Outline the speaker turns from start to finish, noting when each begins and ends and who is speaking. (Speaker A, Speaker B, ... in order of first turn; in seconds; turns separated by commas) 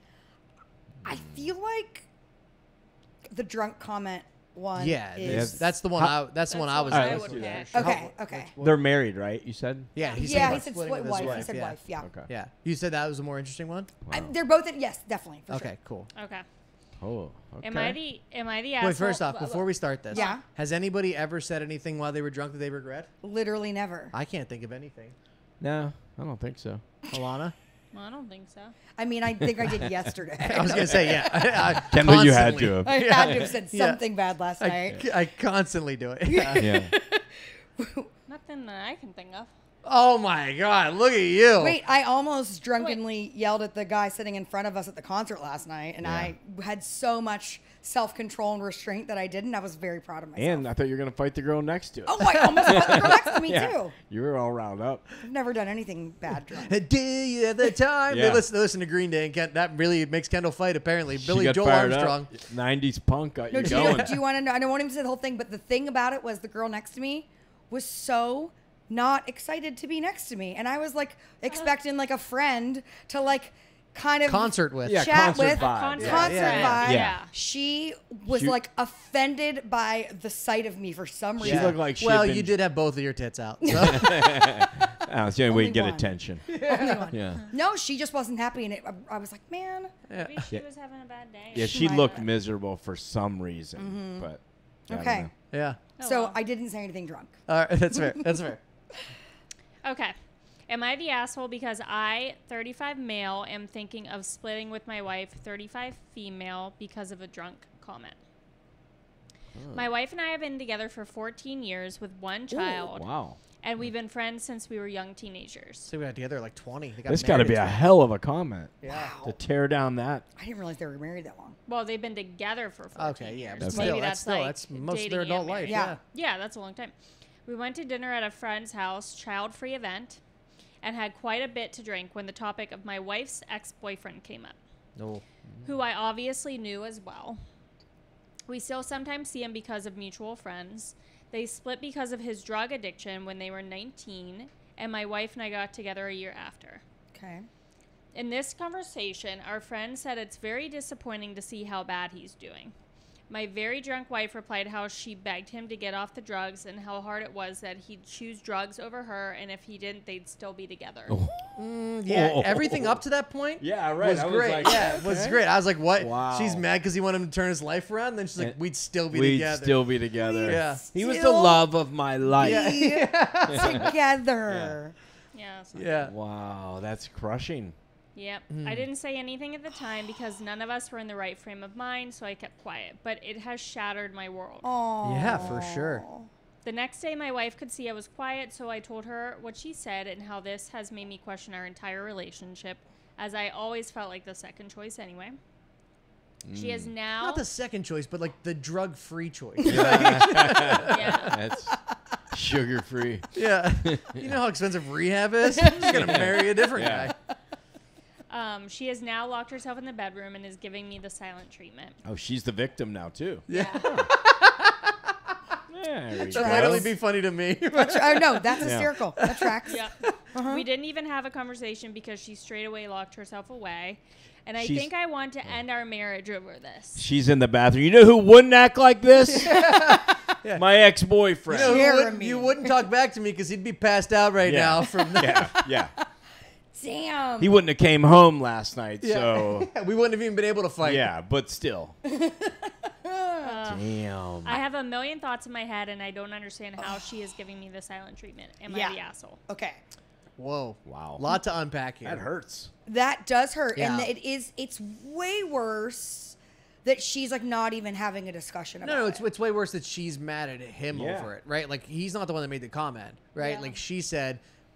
Speaker A: 1.0-2.1, Speaker A: 3.3-5.7, Speaker B: 4.8-8.8, Speaker C: 5.2-6.3, Speaker D: 6.5-7.9, Speaker C: 6.9-8.0, Speaker A: 7.7-8.5, Speaker C: 8.6-12.3, Speaker B: 9.9-13.9, Speaker D: 10.0-10.4, Speaker A: 10.1-12.1, Speaker C: 14.1-14.3, Speaker A: 14.1-15.7, Speaker B: 15.5-16.1, Speaker D: 16.1-16.4, Speaker C: 17.0-18.0, Speaker D: 17.6-20.4, Speaker B: 18.8-23.1, Speaker A: 20.1-20.4, Speaker A: 23.2-24.1, Speaker B: 24.1-25.1, Speaker C: 25.6-26.8, Speaker B: 27.1-27.5, Speaker D: 27.9-28.8, Speaker A: 29.0-31.9, Speaker B: 30.4-34.0, Speaker C: 31.8-33.5, Speaker A: 32.8-35.0, Speaker B: 34.6-36.7, Speaker A: 36.3-38.1, Speaker C: 36.6-36.9, Speaker D: 38.3-39.5, Speaker B: 39.9-41.8, Speaker A: 41.6-50.6, Speaker C: 46.0-46.3, Speaker C: 50.4-55.1, Speaker A: 52.1-54.0, Speaker A: 55.2-56.7, Speaker B: 56.6-62.3, Speaker C: 58.1-58.4, Speaker C: 61.1-64.1, Speaker A: 63.5-81.8, Speaker B: 63.6-64.1, Speaker B: 74.3-75.1, Speaker C: 74.9-77.2, Speaker D: 75.5-77.3, Speaker B: 76.0-76.8, Speaker C: 78.3-78.6, Speaker C: 81.4-82.6, Speaker B: 81.4-84.3, Speaker A: 83.7-84.6, Speaker C: 83.7-87.4, Speaker A: 85.5-89.9, Speaker B: 86.5-87.2, Speaker B: 90.1-90.5, Speaker D: 90.2-92.3, Speaker C: 91.5-95.3, Speaker A: 91.6-92.2, Speaker A: 93.8-94.3, Speaker A: 94.9-95.3, Speaker B: 95.5-95.8, Speaker D: 96.0-96.4, Speaker A: 96.0-97.3, Speaker B: 97.5-98.6, Speaker D: 99.8-100.2, Speaker D: 100.7-108.2, Speaker C: 109.6-109.8, Speaker D: 109.7-113.1, Speaker C: 112.5-113.4, Speaker D: 113.6-115.9, Speaker B: 115.9-117.9, Speaker C: 117.1-120.2, Speaker B: 118.8-119.1, Speaker A: 118.8-119.4, Speaker A: 120.4-121.6, Speaker D: 121.7-126.9, Speaker B: 123.0-126.0, Speaker C: 123.6-124.0, Speaker A: 125.7-126.0, Speaker D: 127.5-130.2, Speaker D: 130.8-134.6, Speaker B: 135.0-135.7, Speaker D: 135.6-137.4, Speaker D: 138.5-146.8, Speaker A: 147.1-147.5, Speaker D: 148.1-152.7, Speaker D: 153.3-161.2, Speaker C: 161.1-163.0, Speaker B: 161.6-169.9, Speaker C: 163.6-165.4, Speaker C: 166.0-166.6, Speaker C: 169.1-172.8, Speaker A: 170.2-171.7, Speaker B: 170.4-170.8, Speaker A: 172.3-174.9, Speaker B: 172.4-173.8, Speaker C: 173.5-173.9, Speaker C: 174.5-174.8, Speaker D: 175.3-176.1, Speaker B: 175.8-176.1, Speaker C: 176.1-177.8, Speaker D: 178.2-184.7, Speaker B: 178.5-178.8, Speaker A: 184.6-186.3, Speaker B: 185.0-186.1, Speaker D: 186.6-195.4, Speaker C: 196.4-196.9, Speaker D: 196.5-197.4, Speaker B: 197.2-201.4, Speaker C: 199.7-201.8, Speaker D: 200.9-201.4, Speaker C: 202.3-204.3, Speaker B: 203.3-207.2, Speaker C: 205.8-207.1, Speaker D: 208.3-212.0, Speaker C: 212.0-214.1, Speaker B: 213.5-215.2, Speaker D: 213.5-213.9, Speaker C: 215.7-216.9, Speaker B: 216.3-219.6, Speaker A: 216.3-217.0, Speaker A: 217.7-220.6, Speaker C: 218.6-218.9, Speaker D: 219.7-227.0, Speaker C: 224.6-224.9, Speaker C: 227.0-229.8, Speaker B: 229.3-230.7, Speaker C: 230.5-231.9, Speaker B: 231.5-235.6, Speaker A: 231.6-232.7, Speaker C: 234.4-235.9, Speaker A: 235.1-235.4, Speaker A: 236.7-237.6, Speaker C: 237.4-239.7, Speaker B: 239.0-241.1, Speaker C: 240.8-242.0, Speaker A: 242.0-243.6, Speaker D: 243.4-249.4, Speaker C: 243.7-244.6, Speaker A: 246.8-247.1, Speaker A: 248.7-249.0, Speaker A: 249.5-249.8, Speaker B: 250.4-252.3, Speaker C: 250.9-251.2, Speaker C: 252.0-252.7, Speaker A: 252.9-259.2, Speaker B: 253.8-254.1, Speaker B: 258.8-264.4, Speaker C: 260.9-261.3, Speaker D: 263.4-263.7, Speaker A: 263.4-263.7